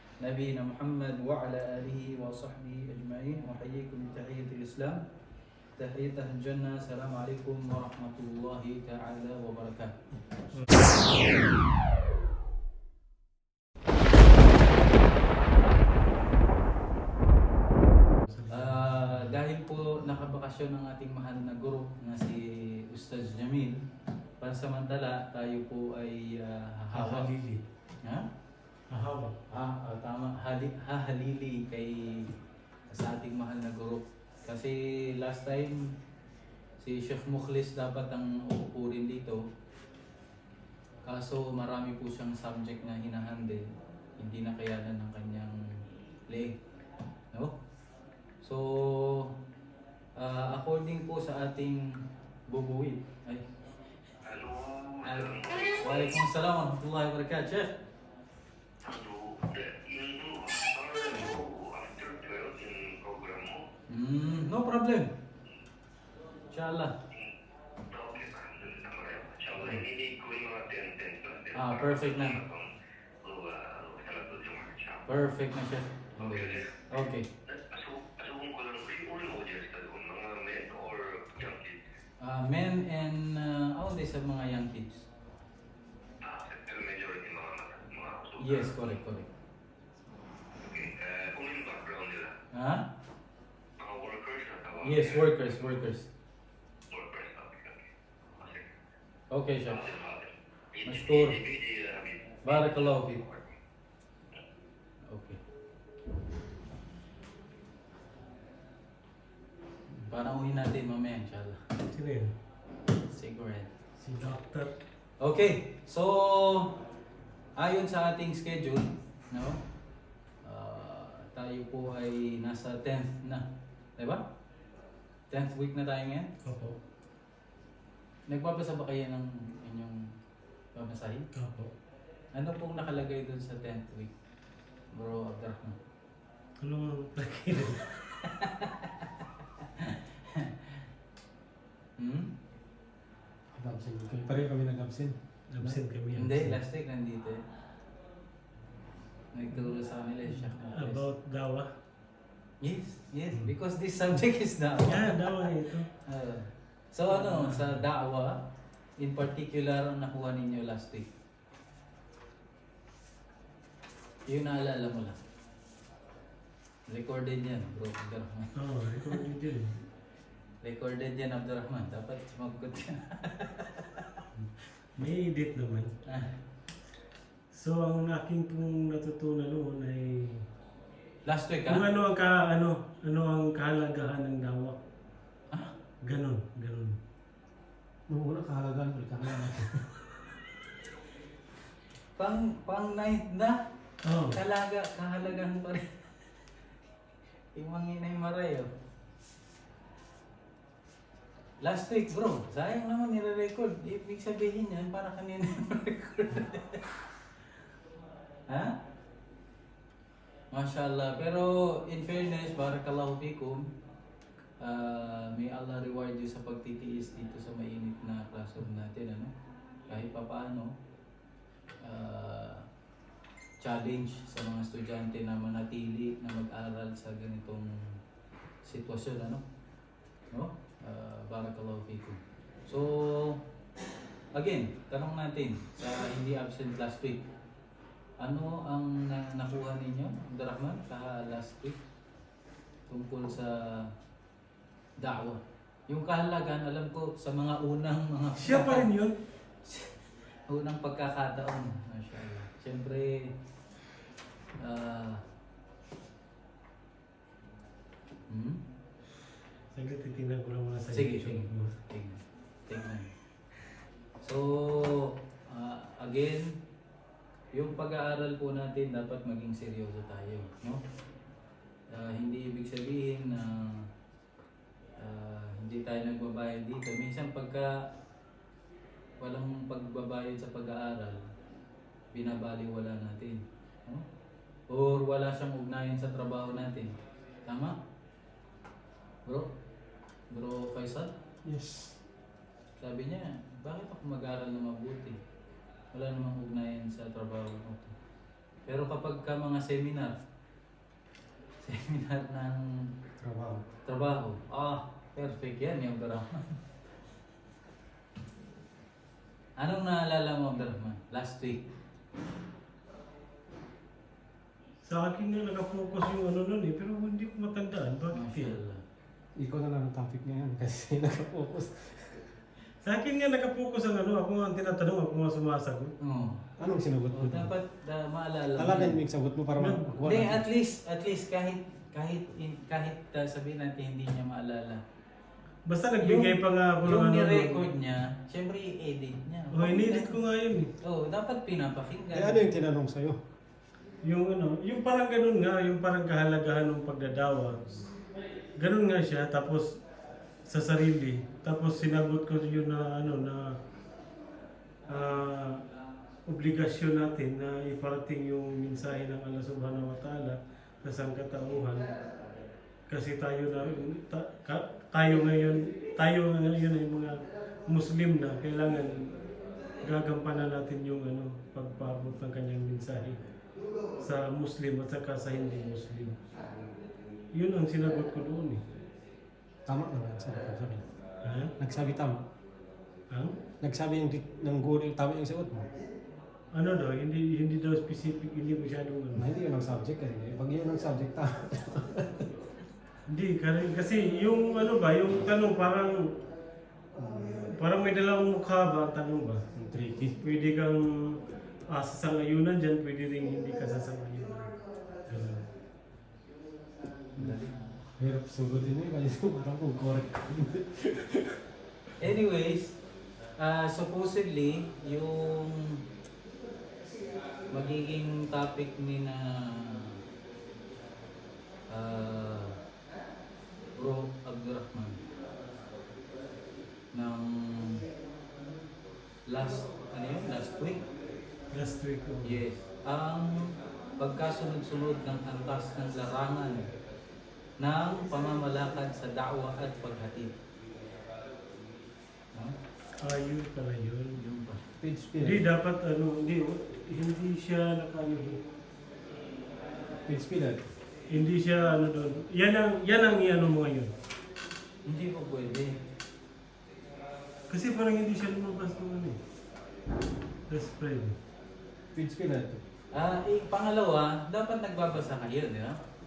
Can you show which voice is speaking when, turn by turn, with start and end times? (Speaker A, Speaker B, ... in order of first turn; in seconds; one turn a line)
Speaker A: 0.2-5.0
Speaker A: 5.8-9.9
Speaker B: 10.5-10.8
Speaker B: 18.3-19.3
Speaker A: 18.5-23.8
Speaker A: 24.4-27.3
Speaker B: 26.9-27.6
Speaker A: 28.0-28.3
Speaker B: 28.9-29.4
Speaker A: 29.5-32.4
Speaker A: 32.9-35.9
Speaker A: 36.8-39.4
Speaker A: 41.0-43.6
Speaker A: 44.2-45.6
Speaker A: 46.3-46.6
Speaker A: 48.4-49.3
Speaker A: 50.2-51.9
Speaker A: 52.5-53.4
Speaker C: 54.2-55.8
Speaker A: 55.0-57.8
Speaker C: 58.8-63.6
Speaker A: 63.9-65.1
Speaker A: 66.5-67.0
Speaker C: 67.9-72.7
Speaker A: 69.6-69.9
Speaker A: 71.5-72.4
Speaker C: 73.2-75.0
Speaker A: 75.1-77.3
Speaker C: 76.2-76.7
Speaker C: 77.5-81.8
Speaker A: 82.2-85.1
Speaker C: 86.2-88.6
Speaker A: 88.4-89.3
Speaker C: 90.6-92.3
Speaker A: 92.5-92.8
Speaker C: 93.8-95.2
Speaker A: 94.8-96.1
Speaker C: 96.9-97.8
Speaker C: 98.4-98.7
Speaker A: 99.3-99.9
Speaker C: 99.8-102.7
Speaker A: 100.8-101.4
Speaker A: 102.4-103.2
Speaker A: 105.1-105.4
Speaker A: 109.9-111.6
Speaker B: 111.9-112.3
Speaker A: 113.1-113.7
Speaker B: 114.0-114.7
Speaker A: 115.2-116.7
Speaker A: 117.6-119.6
Speaker A: 120.4-123.5
Speaker A: 124.0-124.2
Speaker A: 125.3-126.3
Speaker B: 126.4-126.8
Speaker A: 128.3-130.0
Speaker A: 130.8-131.3
Speaker B: 131.3-131.7
Speaker A: 132.3-134.1
Speaker A: 134.9-135.8
Speaker B: 136.6-138.2
Speaker A: 138.2-140.9
Speaker A: 142.0-142.3
Speaker D: 143.6-145.8
Speaker B: 145.5-146.6
Speaker A: 146.2-147.4
Speaker A: 149.3-151.0
Speaker B: 150.3-151.7
Speaker A: 152.6-158.4
Speaker B: 154.9-155.9
Speaker B: 157.1-157.8
Speaker A: 159.0-161.1
Speaker A: 164.3-165.2
Speaker A: 166.9-169.2
Speaker B: 168.6-169.8
Speaker A: 170.6-174.2
Speaker B: 174.3-176.0
Speaker A: 176.1-176.3
Speaker B: 177.5-180.4
Speaker A: 181.3-181.8
Speaker B: 181.7-184.8
Speaker B: 186.1-187.0
Speaker D: 188.1-189.8
Speaker A: 192.2-193.6
Speaker B: 194.0-194.4
Speaker A: 194.3-196.4
Speaker A: 197.6-198.7
Speaker A: 201.6-207.0
Speaker A: 208.5-208.8
Speaker A: 210.5-213.7
Speaker A: 214.6-219.3
Speaker A: 219.9-220.7
Speaker A: 221.8-222.7
Speaker A: 223.6-228.0
Speaker A: 228.7-229.4
Speaker A: 230.3-233.4
Speaker A: 234.3-237.2
Speaker A: 238.2-241.8
Speaker A: 242.9-243.9
Speaker A: 245.0-248.9
Speaker B: 248.4-249.2
Speaker A: 249.6-253.3
Speaker A: 254.6-255.2
Speaker A: 258.3-258.6
Speaker B: 259.7-261.7
Speaker A: 260.9-263.1
Speaker A: 264.2-266.5
Speaker A: 267.5-270.8
Speaker A: 271.9-273.9
Speaker A: 275.0-277.8
Speaker A: 279.2-281.2
Speaker A: 282.1-284.0
Speaker A: 284.7-286.9
Speaker A: 287.5-287.8
Speaker A: 290.3-291.1
Speaker D: 291.4-292.0
Speaker A: 292.8-295.2
Speaker A: 295.9-297.9
Speaker A: 298.7-300.1
Speaker A: 301.6-302.7
Speaker D: 303.2-303.7
Speaker A: 303.9-306.6
Speaker A: 309.6-311.6
Speaker B: 314.9-318.6
Speaker A: 318.1-318.8
Speaker D: 319.4-322.3
Speaker B: 322.8-325.9
Speaker A: 326.0-326.4
Speaker D: 326.6-327.5
Speaker A: 327.1-329.0
Speaker D: 328.6-330.4
Speaker B: 329.6-329.9
Speaker A: 330.0-334.8
Speaker B: 335.7-337.7
Speaker A: 336.0-340.2
Speaker B: 339.5-340.7
Speaker A: 340.8-342.5
Speaker D: 342.1-343.2
Speaker B: 344.1-347.8
Speaker B: 348.6-349.8
Speaker B: 350.5-353.6
Speaker B: 354.9-355.6
Speaker B: 356.3-361.9
Speaker B: 362.9-369.1
Speaker B: 369.8-373.2
Speaker B: 374.0-376.2
Speaker B: 377.3-378.6
Speaker D: 379.7-380.9
Speaker B: 381.2-381.5
Speaker D: 381.6-382.2
Speaker B: 383.1-383.4
Speaker D: 383.6-385.7
Speaker B: 386.5-389.3
Speaker D: 389.2-392.2
Speaker B: 393.1-396.1
Speaker B: 397.1-399.5
Speaker D: 399.6-400.2
Speaker B: 400.2-401.2
Speaker B: 401.7-404.5
Speaker B: 405.1-405.4
Speaker A: 407.2-407.6
Speaker D: 408.0-411.4
Speaker A: 412.0-412.7
Speaker A: 413.4-415.8
Speaker A: 417.5-420.0
Speaker A: 421.7-422.6
Speaker A: 423.8-425.0
Speaker A: 426.9-427.9
Speaker A: 429.3-430.8
Speaker B: 431.5-432.4
Speaker A: 432.2-436.6
Speaker A: 437.6-440.3
Speaker B: 443.0-444.2
Speaker A: 444.2-444.6
Speaker D: 444.8-445.4
Speaker B: 445.2-448.4
Speaker D: 450.1-450.7
Speaker B: 451.1-453.9
Speaker A: 454.9-455.8
Speaker B: 457.5-459.2
Speaker B: 460.5-461.2
Speaker D: 461.9-462.6
Speaker A: 462.9-465.8